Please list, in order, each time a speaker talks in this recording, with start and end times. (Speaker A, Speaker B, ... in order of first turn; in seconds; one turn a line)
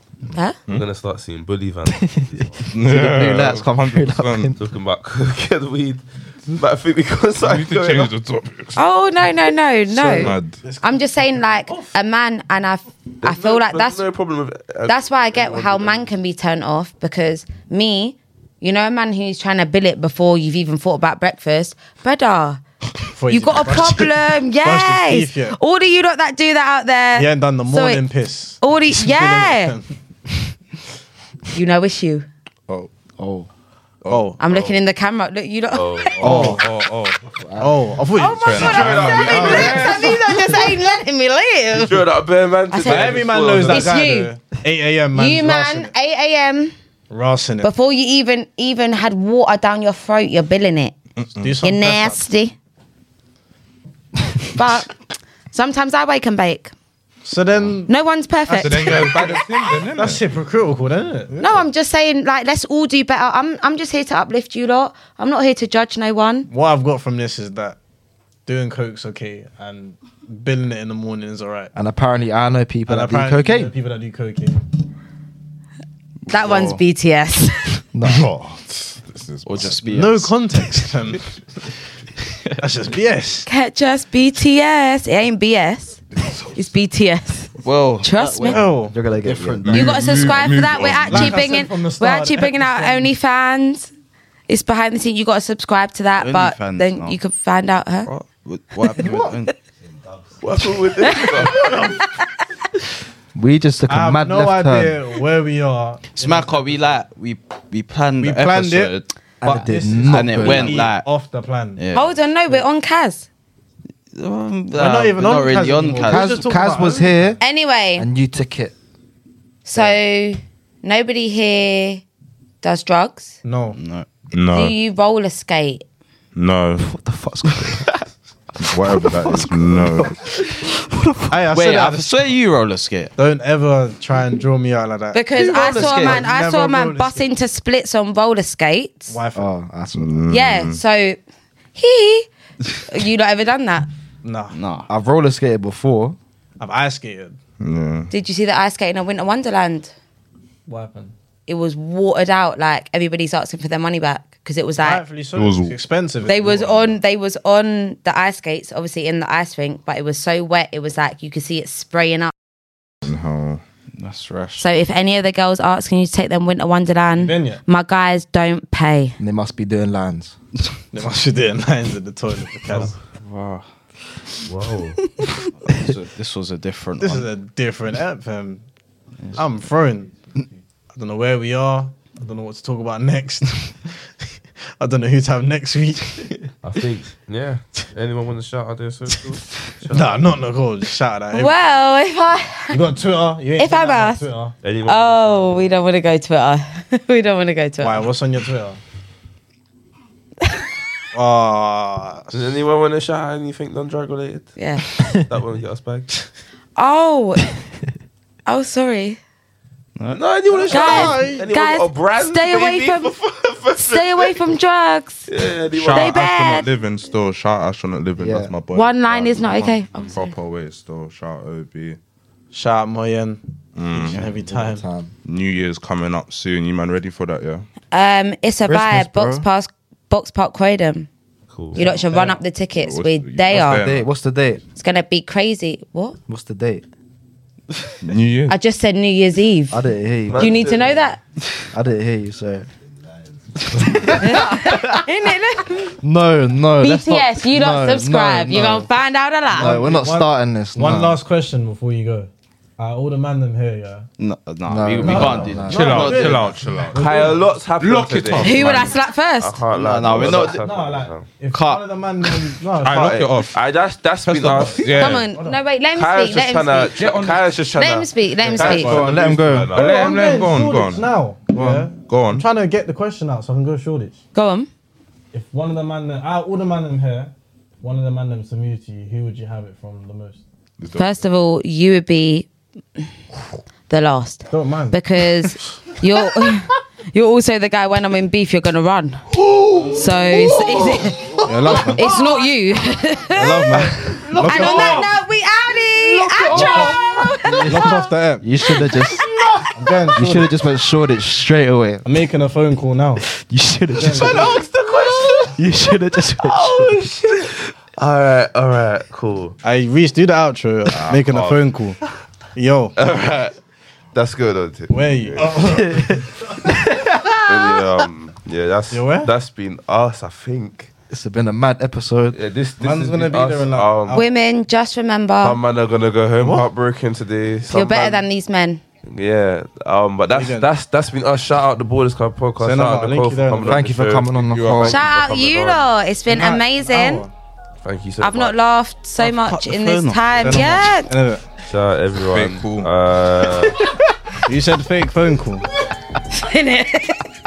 Speaker A: 0.7-2.6
Speaker B: 2.1-4.6
Speaker C: 2.6-4.6
Speaker A: 4.6-8.1
Speaker C: 7.4-8.8
Speaker D: 8.8-14.1
Speaker C: 9.9-10.6
Speaker E: 10.1-11.0
Speaker E: 11.7-11.9
Speaker A: 13.2-16.1
Speaker D: 14.9-22.6
Speaker E: 23.1-25.6
Speaker D: 23.3-28.1
Speaker E: 27.1-29.9
Speaker D: 28.6-29.8
Speaker D: 31.5-32.3
Speaker B: 33.2-33.5
Speaker C: 34.0-34.6
Speaker E: 34.1-34.4
Speaker D: 34.4-36.1
Speaker A: 35.7-36.3
Speaker C: 36.2-37.2
Speaker E: 36.2-36.6
Speaker B: 37.5-37.8
Speaker E: 37.6-40.1
Speaker D: 38.1-42.1
Speaker C: 38.4-40.4
Speaker A: 38.5-40.2
Speaker A: 41.8-43.9
Speaker D: 42.7-44.3
Speaker E: 42.9-45.9
Speaker D: 45.1-46.7
Speaker E: 47.1-47.7
Speaker D: 47.6-50.9
Speaker C: 51.2-51.6
Speaker E: 51.4-52.2
Speaker D: 51.6-52.5
Speaker D: 54.5-55.0
Speaker D: 55.5-56.7
Speaker E: 57.2-57.9
Speaker D: 57.9-59.2
Speaker E: 58.5-61.5
Speaker C: 58.6-60.3
Speaker D: 61.4-66.5
Speaker E: 66.5-67.8
Speaker E: 68.5-71.7
Speaker B: 71.8-73.7
Speaker E: 72.9-74.7
Speaker D: 76.3-77.8
Speaker F: 76.3-76.8
Speaker B: 77.9-78.3
Speaker C: 78.0-79.9
Speaker F: 79.5-80.3
Speaker E: 79.8-81.3
Speaker E: 82.6-83.5
Speaker D: 83.5-88.6
Speaker F: 87.6-90.3
Speaker E: 88.5-89.0
Speaker B: 88.9-90.0
Speaker C: 89.6-91.5
Speaker D: 89.7-93.9
Speaker E: 91.0-93.1
Speaker D: 94.5-98.1
Speaker F: 96.2-97.2
Speaker F: 98.1-99.5
Speaker D: 98.9-99.5
Speaker A: 100.4-101.8
Speaker D: 101.0-102.4
Speaker E: 101.4-102.0
Speaker B: 103.3-105.0
Speaker E: 103.9-107.0
Speaker F: 106.1-111.1
Speaker E: 108.2-111.8
Speaker B: 109.4-110.9
Speaker F: 111.8-112.1
Speaker D: 111.9-113.3
Speaker F: 114.1-116.4
Speaker E: 114.7-117.4
Speaker B: 116.1-117.4
Speaker D: 117.4-118.1
Speaker B: 118.0-118.7
Speaker D: 119.7-122.0
Speaker D: 122.6-123.4
Speaker E: 123.4-123.8
Speaker F: 123.8-124.1
Speaker C: 124.3-124.8
Speaker D: 124.5-125.8
Speaker C: 126.4-126.9
Speaker B: 126.8-127.9
Speaker F: 127.5-128.0
Speaker C: 128.6-130.1
Speaker B: 128.8-131.3
Speaker E: 131.3-132.2
Speaker F: 131.5-133.1
Speaker E: 133.2-137.3
Speaker D: 135.1-139.2
Speaker F: 135.3-136.3
Speaker E: 139.1-139.5
Speaker B: 139.3-140.2
Speaker C: 139.9-140.8
Speaker D: 140.3-141.2
Speaker D: 141.8-142.3
Speaker D: 142.8-143.9
Speaker E: 144.2-144.6
Speaker F: 144.5-144.9
Speaker B: 144.9-146.2
Speaker E: 146.6-147.4
Speaker C: 147.6-148.1
Speaker D: 148.1-149.9
Speaker E: 150.7-151.1
Speaker D: 151.5-155.0
Speaker E: 154.8-157.0
Speaker C: 155.4-155.8
Speaker D: 156.2-162.3
Speaker C: 163.0-163.6
Speaker F: 164.0-164.7
Speaker D: 164.6-169.2
Speaker E: 167.2-167.6
Speaker B: 169.2-170.3
Speaker E: 170.9-173.0
Speaker F: 173.1-173.7
Speaker A: 174.4-175.0
Speaker F: 175.6-177.3
Speaker E: 177.0-178.6
Speaker E: 179.3-180.1
Speaker E: 180.9-183.9
Speaker E: 184.8-186.4
Speaker A: 186.6-190.3
Speaker E: 189.9-191.6
Speaker D: 191.3-192.8
Speaker E: 192.7-194.6
Speaker D: 193.6-194.2
Speaker A: 194.6-195.7
Speaker D: 194.8-198.1
Speaker E: 197.8-198.8
Speaker E: 201.1-202.3
Speaker A: 202.3-206.2
Speaker D: 204.6-204.9
Speaker D: 206.8-207.5
Speaker D: 208.5-209.2
Speaker F: 210.0-210.3
Speaker A: 210.1-214.3
Speaker E: 210.5-211.4
Speaker D: 210.7-213.1
Speaker D: 213.8-215.3
Speaker A: 215.3-216.1
Speaker C: 215.7-222.0
Speaker D: 215.9-216.7
Speaker B: 218.2-218.5
Speaker D: 218.7-220.3
Speaker E: 222.5-223.4
Speaker C: 223.8-224.2
Speaker E: 223.9-224.8
Speaker B: 224.1-225.1
Speaker C: 225.2-227.7
Speaker D: 227.9-231.1
Speaker B: 228.7-229.5
Speaker A: 231.5-231.8
Speaker D: 231.7-233.8
Speaker E: 231.8-232.4
Speaker C: 232.8-234.1
Speaker B: 233.5-234.6
Speaker D: 234.8-236.2
Speaker B: 236.3-236.8
Speaker C: 238.0-238.6
Speaker D: 238.5-239.8
Speaker B: 239.7-240.6
Speaker A: 240.3-241.0
Speaker D: 240.3-241.2
Speaker B: 241.7-242.7
Speaker B: 243.9-244.9
Speaker D: 244.1-246.0
Speaker B: 246.0-248.7
Speaker D: 246.8-249.9
Speaker E: 248.6-248.8
Speaker E: 249.5-254.1
Speaker B: 249.5-251.2
Speaker F: 254.2-256.6
Speaker B: 254.7-256.1
Speaker E: 255.1-257.6
Speaker C: 255.7-259.0
Speaker A: 256.9-261.3
Speaker D: 258.4-259.6
Speaker F: 259.7-260.6
Speaker E: 260.3-263.1
Speaker F: 261.5-262.5
Speaker C: 262.8-263.6
Speaker A: 262.8-264.9
Speaker C: 264.2-265.3
Speaker D: 264.9-267.1
Speaker E: 265.0-265.6
Speaker A: 265.9-269.9
Speaker C: 267.0-267.6
Speaker D: 267.7-269.0
Speaker E: 268.6-269.2
Speaker B: 268.6-269.7
Speaker C: 269.7-271.1
Speaker E: 269.7-274.2
Speaker B: 271.5-271.9
Speaker C: 272.1-272.5
Speaker D: 274.3-274.7
Speaker E: 275.3-280.4
Speaker C: 280.8-281.2
Speaker D: 281.0-282.5
Speaker D: 283.9-289.2
Speaker E: 284.5-285.0
Speaker A: 289.4-292.1
Speaker D: 289.9-298.1
Speaker E: 291.4-292.1
Speaker E: 293.3-295.1
Speaker B: 294.1-294.9
Speaker B: 296.1-299.3
Speaker A: 296.5-296.9
Speaker E: 296.5-297.0
Speaker E: 297.7-298.5
Speaker D: 298.7-299.2
Speaker A: 299.4-299.6
Speaker E: 299.7-300.6
Speaker B: 300.1-302.1
Speaker E: 302.1-303.2
Speaker B: 303.2-304.6
Speaker E: 303.9-304.6
Speaker A: 304.1-305.6
Speaker B: 305.3-307.0
Speaker A: 306.4-309.6
Speaker E: 309.6-312.0
Speaker A: 311.0-311.6
Speaker E: 312.6-312.9
Speaker A: 313.0-313.5
Speaker A: 314.1-315.5
Speaker E: 314.9-316.4
Speaker B: 316.9-317.4
Speaker A: 317.5-320.9
Speaker E: 318.9-319.3
Speaker B: 321.1-322.4
Speaker A: 322.3-324.2
Speaker E: 322.8-324.3
Speaker D: 324.1-325.6
Speaker A: 325.4-328.2
Speaker D: 327.7-328.8
Speaker A: 329.1-335.9
Speaker E: 330.3-330.7
Speaker E: 332.6-333.9
Speaker B: 333.7-335.0
Speaker C: 334.5-335.0
Speaker D: 334.8-337.3
Speaker E: 336.3-337.3
Speaker A: 337.8-338.6
Speaker D: 338.2-341.1
Speaker E: 339.2-341.5
Speaker F: 339.3-340.9
Speaker A: 341.7-343.8
Speaker C: 342.2-342.9
Speaker E: 344.5-345.7
Speaker D: 346.3-347.3